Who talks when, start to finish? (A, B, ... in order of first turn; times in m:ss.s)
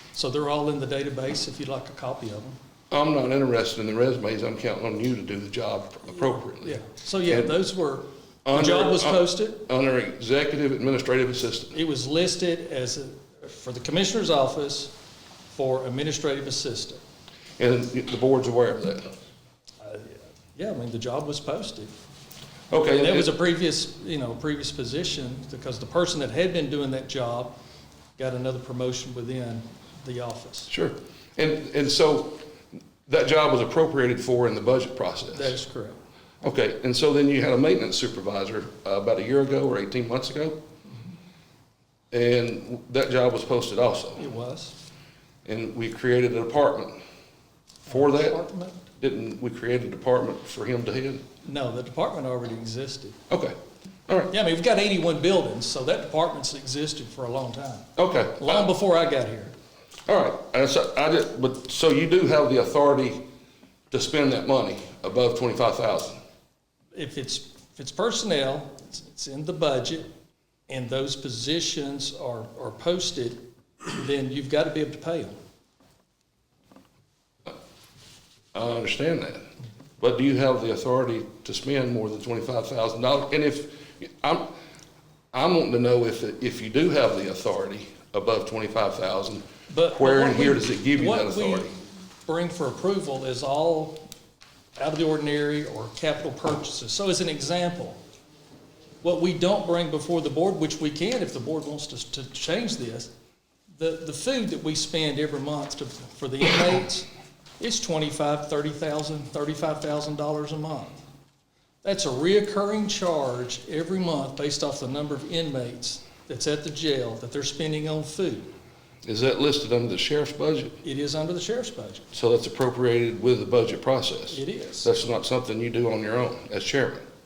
0:00.1-0:02.6 A
0:02.9-0:07.6 B
0:06.6-0:09.6 A
0:08.5-0:11.7 B
0:11.7-0:14.9 A
0:15.5-0:17.0 A
0:17.6-0:19.1 B
0:19.8-0:21.9 A
0:22.7-0:23.3 B
0:22.9-0:27.5 A
0:28.2-0:30.7 A
0:30.7-0:32.4 B
0:33.1-0:35.6 B
0:35.3-0:36.0 A
0:36.4-0:40.6 B
0:42.1-0:44.2 B
0:44.2-0:44.8 A
0:45.4-0:47.0 B
0:47.9-0:48.4 B
0:47.9-0:48.8 A
0:49.0-0:51.2 B
0:51.4-0:53.2 A
0:53.3-0:53.6 B
0:54.3-0:57.9 A
0:58.0-0:58.7 B
0:58.4-0:59.5 A
1:00.1-1:03.2 B
1:03.9-1:06.2 B
1:07.0-1:10.1 A
1:10.7-1:13.4 A
1:13.9-1:15.4 A
1:18.5-1:19.4 B
1:20.0-1:24.5 B
1:25.3-1:31.7 B
1:29.7-1:31.7 A
1:32.3-1:34.0 A
1:34.8-1:38.0 A
1:39.0-1:43.1 A
1:43.8-1:47.1 A
1:47.6-1:51.0 A
1:51.8-1:58.5 A
1:59.0-2:00.8 B
2:00.8-2:02.1 A
2:02.1-2:07.0 B
2:04.3-2:04.9 A